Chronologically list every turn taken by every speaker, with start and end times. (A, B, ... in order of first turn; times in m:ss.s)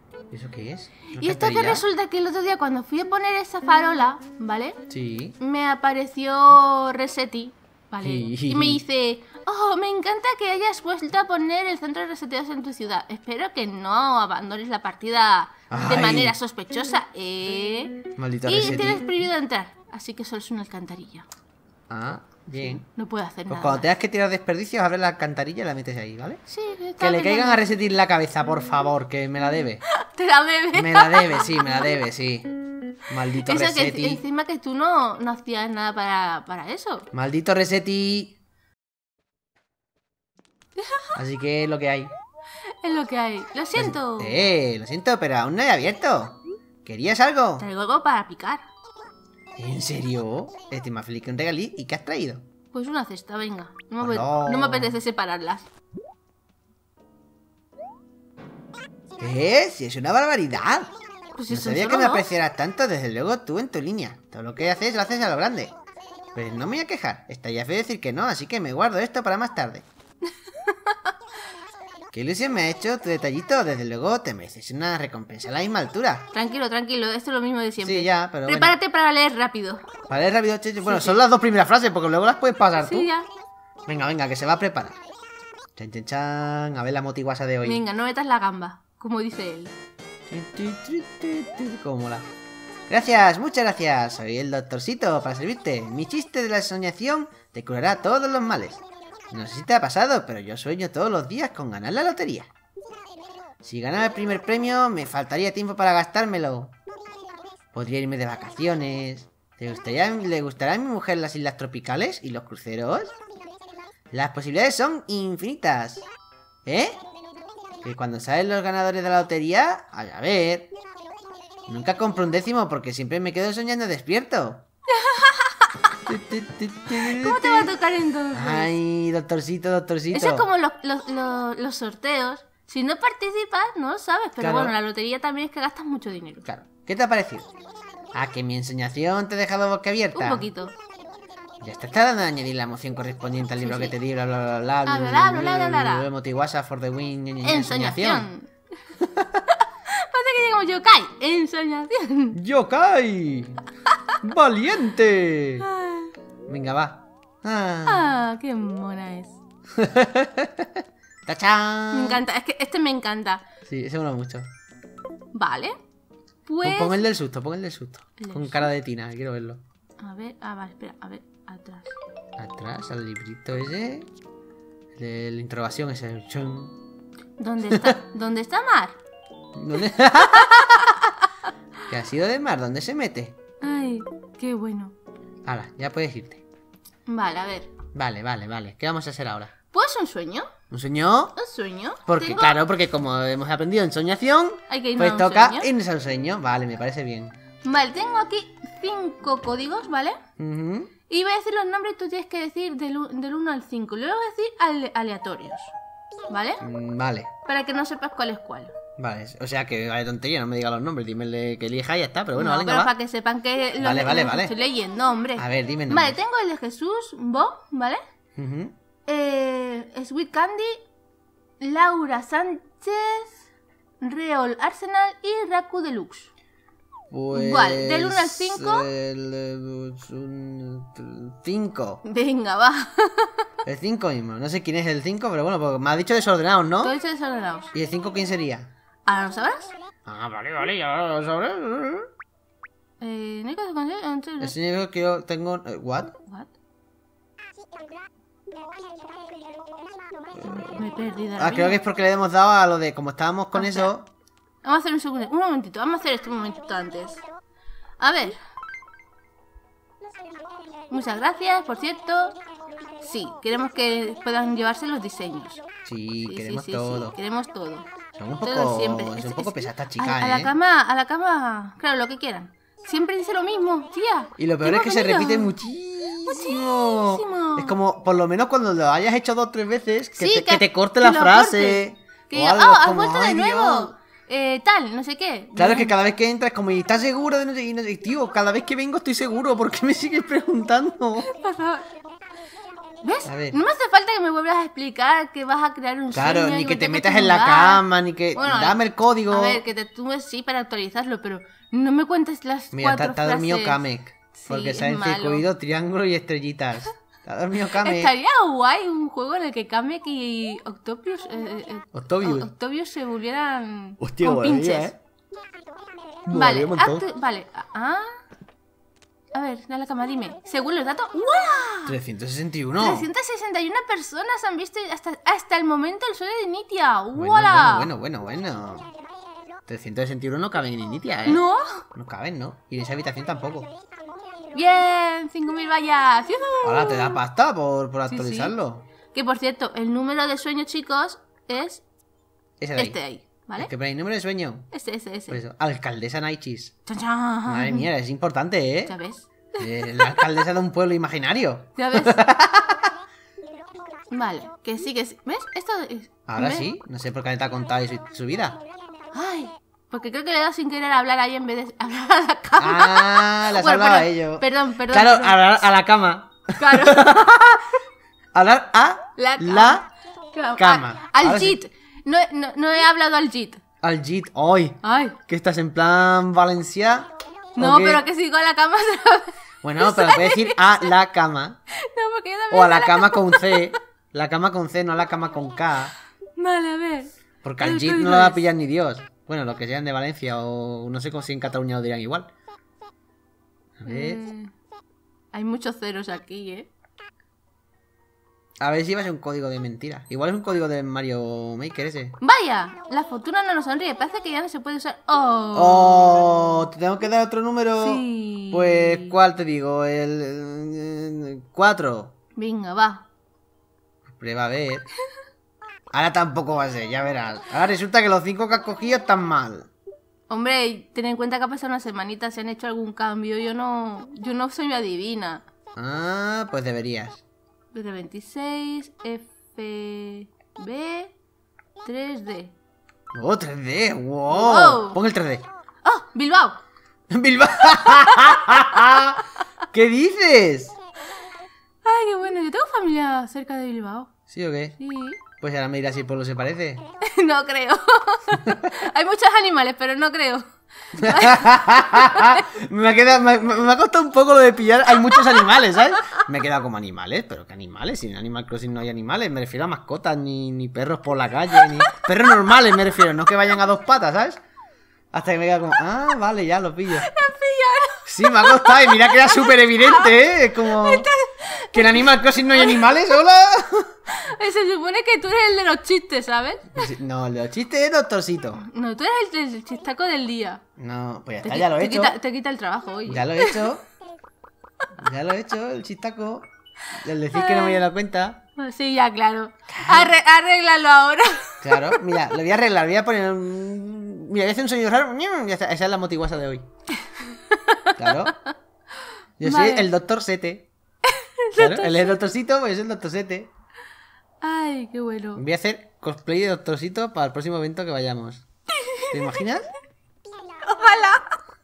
0:00.3-0:01.9 A
0:01.1-0:04.8 B
0:04.9-0:05.4 A
0:05.4-0:21.3 B
0:08.0-0:08.8 A
0:15.7-0:16.4 A
0:18.2-0:19.1 A
0:21.9-0:22.8 A
0:22.6-0:23.9 B
0:23.5-0:26.4 A
0:26.5-0:27.6 B
0:27.0-0:29.8 A
0:29.9-0:31.9 B
0:30.8-0:32.5 A
0:33.1-0:34.2 A
0:33.4-0:37.1 B
0:37.1-0:38.4 A
0:40.8-0:41.1 B
0:41.2-0:42.1 A
0:42.8-0:44.4 B
0:43.8-0:47.6 A
0:47.6-0:48.6 B
0:49.6-0:52.5 A
0:52.7-0:55.7 B
0:54.0-0:55.0 A
0:59.2-1:01.0 A
1:01.3-1:02.3 B
1:01.5-1:05.8 A
1:06.3-1:09.8 A
1:12.1-1:16.3 A
1:16.3-1:19.8 B
1:17.8-1:18.8 A
1:20.1-1:23.1 A
1:20.8-1:21.2 B
1:22.8-1:23.3 B
1:23.9-1:25.0 A
1:25.8-1:27.8 A
1:27.6-1:29.7 B
1:30.3-1:32.3 A
1:32.9-1:42.5 A
1:43.6-1:46.8 A
1:47.7-1:53.2 A
1:54.1-1:56.1 A
1:56.7-1:57.0 A
1:57.8-2:00.7 A
2:01.7-2:04.6 A
2:05.0-2:06.0 B
2:06.1-2:07.7 A
2:07.0-2:08.7 B
2:08.3-2:10.5 A
2:10.1-2:16.5 B
2:14.4-2:14.8 A
2:16.4-2:17.5 A
2:18.1-2:20.5 A
2:20.1-2:20.7 B
2:21.6-2:28.3 A
2:23.6-2:24.0 B
2:24.9-2:26.1 B
2:27.4-2:28.5 B
2:29.0-2:29.4 A
2:29.6-2:32.4 B
2:32.3-2:33.6 A
2:34.2-2:35.7 A
2:35.6-2:36.1 B
2:36.5-2:38.1 A
2:37.9-2:39.4 B
2:39.8-2:42.2 A
2:41.9-2:43.4 B
2:43.7-2:44.5 A
2:45.4-2:45.8 B
2:46.5-2:47.0 B
2:46.6-2:49.6 A
2:48.2-2:48.7 B
2:50.0-2:51.9 B
2:52.4-2:54.1 A
2:55.0-2:56.8 A
2:57.4-2:59.0 B
2:59.6-3:00.8 A
3:00.5-3:01.3 B
3:01.9-3:03.4 A
3:03.6-3:05.0 B
3:05.5-3:06.4 A
3:07.1-3:07.7 B
3:08.0-3:09.5 A
3:09.7-3:10.5 B
3:10.7-3:11.4 A
3:11.4-3:12.6 B
3:12.1-3:17.4 A
3:14.7-3:15.7 B
3:17.6-3:20.2 B
3:20.4-3:20.9 A
3:21.1-3:25.7 B
3:26.3-3:26.6 B
3:26.6-3:27.3 A
3:27.5-3:28.7 B
3:29.0-3:32.9 A
3:32.4-3:38.0 B
3:33.8-3:34.6 A
3:35.4-3:36.2 A
3:38.4-3:38.8 A
3:39.1-3:40.8 B
3:41.6-3:43.4 B
3:44.0-3:46.3 B
3:47.1-3:52.0 A
3:47.3-3:48.9 B
3:52.0-3:53.4 B
3:53.6-3:57.0 A
3:56.8-3:57.7 B
3:57.7-3:58.7 A
3:59.1-3:59.7 B
4:00.1-4:02.1 A
4:03.0-4:04.6 B
4:04.4-4:06.1 A
4:06.3-4:06.5 B
4:10.4-4:10.8 A
4:10.4-4:11.8 B
4:11.4-4:14.1 A
4:13.5-4:13.9 B
4:14.6-4:17.2 B
4:18.0-4:18.4 B
4:20.9-4:22.4 B
4:23.0-4:25.6 B
4:25.8-4:27.2 A
4:26.2-4:27.9 B
4:28.2-4:30.5 A
4:28.4-4:35.5 B
4:34.4-4:43.9 A
4:36.3-4:37.7 B
4:40.2-4:45.9 B
4:45.6-4:51.3 A
4:51.2-4:51.9 B
4:53.0-4:57.8 B
4:53.2-4:53.6 A
4:56.1-4:59.6 A
4:58.4-5:03.8 B
5:02.7-5:08.1 A
5:04.4-5:05.5 B
5:07.7-5:14.9 B
5:12.0-5:12.5 A
5:14.0-5:15.0 A
5:16.3-5:17.1 A
5:16.3-5:18.2 B
5:19.3-5:22.0 B
5:21.9-5:23.1 A
5:22.8-5:27.9 B
5:27.2-5:28.9 A
5:29.7-5:31.4 A
5:31.3-5:31.8 B
5:32.0-5:33.7 A
5:34.5-5:37.2 B
5:36.6-5:38.9 A
5:38.1-5:38.5 B
5:39.1-5:41.8 B
5:42.6-5:43.0 A
5:42.8-5:43.7 B
5:43.6-5:44.7 A
5:44.7-5:45.4 B
5:45.3-5:46.8 A
5:46.9-5:47.9 B
5:47.5-5:49.0 A
5:48.9-5:50.3 B
5:49.6-5:52.9 A
5:51.8-5:52.2 B
5:54.1-5:56.7 B
5:56.3-5:58.6 A
5:59.1-6:05.4 B
6:02.6-6:07.7 A
6:06.6-6:07.3 B
6:08.3-6:09.9 A
6:09.2-6:13.6 B
6:10.6-6:11.6 A
6:13.8-6:18.0 A
6:14.8-6:15.2 B
6:17.6-6:20.9 B
6:19.6-6:21.6 A
6:21.8-6:23.7 B
6:22.5-6:25.9 A
6:26.4-6:28.4 B
6:27.4-6:32.3 A
6:33.8-6:34.2 A
6:33.9-6:34.5 B
6:35.3-6:36.7 B
6:38.6-6:42.2 A
6:42.2-6:46.6 B
6:45.5-6:52.1 A
6:47.8-6:49.2 B
6:52.4-6:53.0 B
6:54.1-6:54.9 A
6:55.9-6:59.7 A
7:00.3-7:05.4 B
7:05.8-7:07.2 A
7:07.7-7:11.1 B
7:11.8-7:12.5 B
7:13.1-7:15.5 A
7:14.3-7:15.0 B
7:15.8-7:16.6 B
7:17.1-7:19.2 A
7:18.3-7:18.6 B
7:19.7-7:20.8 A
7:21.8-7:24.1 B
7:24.3-7:24.8 A
7:24.8-7:25.2 B
7:25.4-7:26.8 A
7:27.0-7:32.5 B
7:31.0-7:44.4 A
7:35.1-7:35.5 B
7:41.6-7:42.1 B
7:45.1-7:47.1 A
7:46.9-7:53.0 B
7:48.1-7:51.1 A
7:51.7-7:53.9 A
7:54.1-7:56.9 B
7:56.8-7:58.6 A
7:58.6-8:00.6 B
8:00.8-8:02.2 A
8:01.4-8:03.6 B
8:03.1-8:03.9 A
8:05.0-8:08.4 A
8:07.3-8:07.8 B
8:08.6-8:12.2 B
8:09.7-8:10.2 A
8:11.6-8:16.7 A
8:17.0-8:17.9 B
8:18.0-8:18.4 A
8:19.4-8:20.7 A
8:19.4-8:19.9 B
8:21.0-8:22.2 B
8:21.6-8:23.5 A
8:24.4-8:25.4 B
8:25.4-8:28.4 A
8:28.8-8:29.1 B
8:29.1-8:29.7 A
8:30.6-8:31.4 B